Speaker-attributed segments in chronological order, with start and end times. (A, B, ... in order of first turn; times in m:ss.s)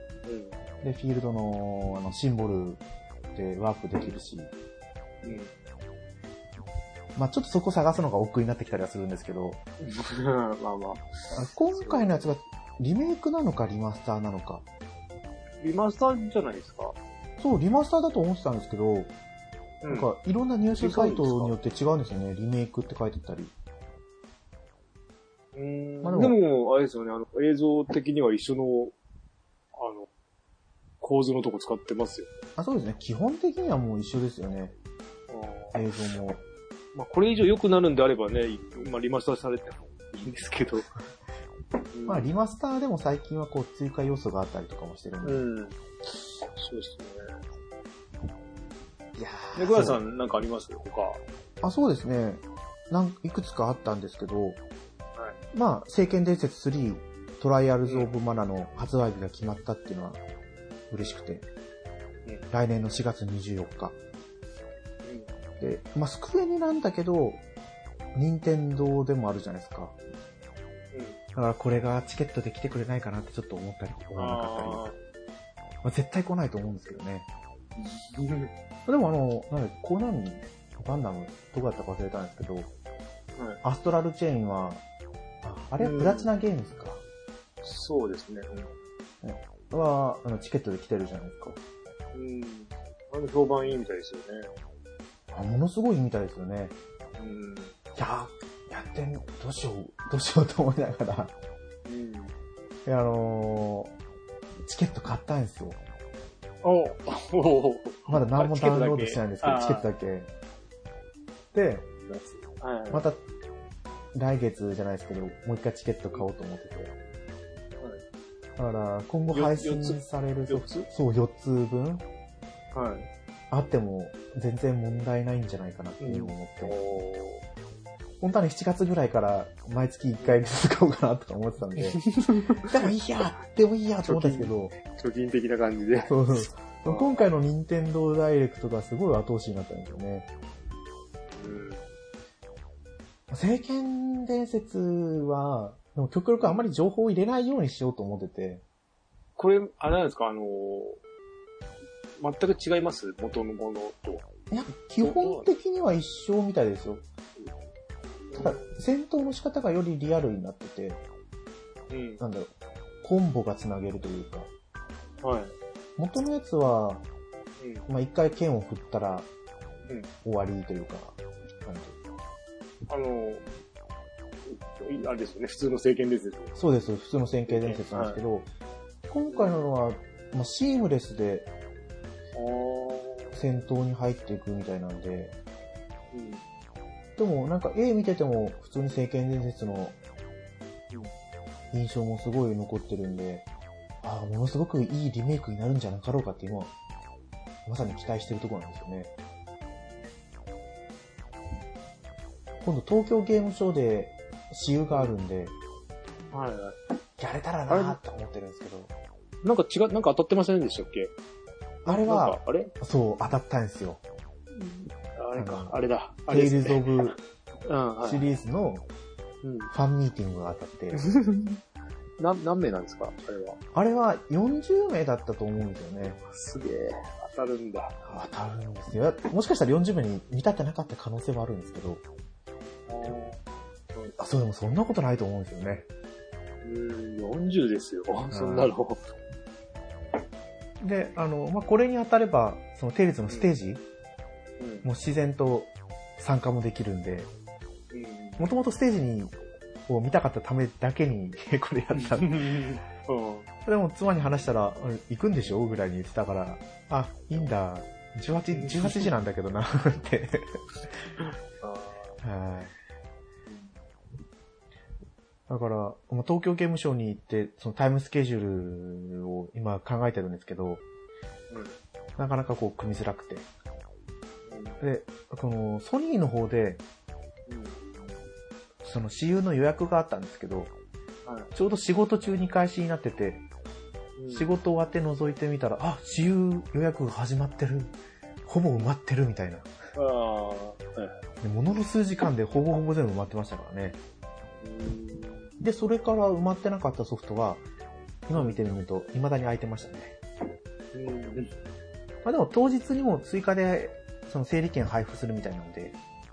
0:00.3-0:00.6 A
0:00.8-0:02.8 B
0:03.3-0:04.5 B
0:05.2-0:05.5 A
0:07.2-0:09.6 B
0:09.8-0:11.1 A
0:11.3-0:14.6 B
0:11.7-0:12.2 A
0:15.6-0:17.0 A
0:17.4-0:19.1 B
0:19.8-0:20.1 A
0:19.9-0:23.5 B
0:20.8-0:21.6 A
0:25.5-0:29.0 A
0:26.0-0:26.4 B
0:29.8-0:30.1 A
0:31.0-0:32.3 A
0:32.6-0:34.7 B
0:35.3-0:35.8 A
0:35.7-0:36.4 B
0:36.9-0:40.9 A
0:41.9-0:42.3 A
0:42.1-0:45.4 B
0:45.2-0:47.2 A
0:49.2-0:50.0 B
0:49.6-0:51.2 A
0:51.6-0:54.6 B
0:55.5-1:00.2 B
1:00.9-1:01.5 B
1:02.5-1:04.0 B
1:05.0-1:05.3 A
1:05.6-1:07.4 B
1:08.2-1:10.0 B
1:10.9-1:11.2 A
1:11.4-1:14.9 B
1:14.2-1:15.0 A
1:15.8-1:17.3 B
1:17.8-1:18.5 A
1:18.9-1:22.7 B
1:23.4-1:23.6 A
1:23.6-1:24.8 B
1:25.4-1:27.0 B
1:25.8-1:26.3 A
1:27.6-1:28.8 A
1:29.2-1:31.6 B
1:32.1-1:34.5 A
1:35.3-1:36.8 B
1:37.2-1:37.7 A
1:38.0-1:41.3 B
1:41.9-1:42.3 A
1:42.8-1:43.9 B
1:44.6-1:45.8 B
1:46.6-1:49.9 A
1:48.1-1:50.3 B
1:51.5-1:51.9 B
1:52.1-1:53.1 A
1:52.9-1:53.2 B
1:54.1-1:56.9 B
1:58.6-2:02.0 B
1:59.3-2:00.9 A
2:02.7-2:03.1 A
2:03.5-2:06.8 B
2:06.0-2:07.4 A
2:08.2-2:12.0 B
2:11.8-2:12.7 A
2:12.7-2:14.8 B
2:14.0-2:16.2 A
2:16.1-2:20.3 B
2:16.8-2:17.3 A
2:21.4-2:21.8 A
2:23.3-2:28.6 B
2:26.4-2:26.7 A
2:29.4-2:31.0 A
2:32.2-2:34.3 A
2:34.5-2:37.0 B
2:35.0-2:35.5 A
2:38.3-2:38.7 A
2:38.4-2:41.0 B
2:41.9-2:42.2 A
2:42.2-2:42.5 B
2:43.0-2:44.5 B
2:45.2-2:45.6 A
2:46.0-2:47.0 B
2:47.6-2:47.9 A
2:47.9-2:49.3 B
2:50.2-2:52.0 B
2:52.9-2:53.5 A
2:54.5-2:56.6 A
2:56.6-2:58.5 B
2:57.5-2:58.2 A
2:59.1-3:01.5 B
2:59.3-2:59.7 A
3:02.4-3:03.4 A
3:03.3-3:05.4 B
3:06.1-3:06.4 A
3:07.2-3:10.0 B
3:11.7-3:13.5 B
3:14.0-3:16.7 B
3:17.7-3:19.1 B
3:22.6-3:25.6 B
3:24.9-3:25.2 A
3:26.3-3:26.8 A
3:27.2-3:28.9 B
3:27.7-3:28.0 A
3:29.4-3:31.1 A
3:31.9-3:32.7 A
3:31.9-3:34.0 B
3:34.5-3:38.3 A
3:35.4-3:35.8 B
3:36.3-3:37.2 B
3:38.0-3:38.9 B
3:39.4-3:39.7 A
3:39.7-3:41.0 B
3:41.0-3:41.6 A
3:42.2-3:43.6 A
3:43.7-3:46.2 B
3:46.0-3:48.0 A
3:48.0-3:52.0 B
3:52.9-3:53.4 A
3:54.2-3:55.9 B
3:56.6-3:59.0 A
3:58.3-3:58.7 B
4:00.8-4:03.8 B
4:04.6-4:04.9 A
4:04.8-4:07.3 B
4:07.9-4:08.4 A
4:08.4-4:09.4 B
4:09.9-4:12.4 B
4:12.0-4:13.5 A
4:13.6-4:20.6 B
4:18.6-4:19.1 A
4:21.2-4:22.2 A
4:22.2-4:22.7 B
4:23.5-4:23.8 A
4:25.5-4:30.8 B
4:31.5-4:31.8 A
4:32.2-4:33.5 B
4:34.5-4:34.8 A
4:34.8-4:36.8 B
4:37.5-4:38.1 A
4:38.8-4:40.7 B
4:41.2-4:41.5 A
4:41.5-4:43.4 B
4:44.2-4:44.5 A
4:44.3-4:48.0 B
4:48.5-4:49.7 B
4:50.0-4:51.2 A
4:51.4-4:54.0 B
4:54.6-4:55.5 A
4:55.6-4:57.6 B
4:58.3-5:00.2 B
4:58.3-4:58.6 A
5:00.9-5:01.5 A
5:02.2-5:06.0 B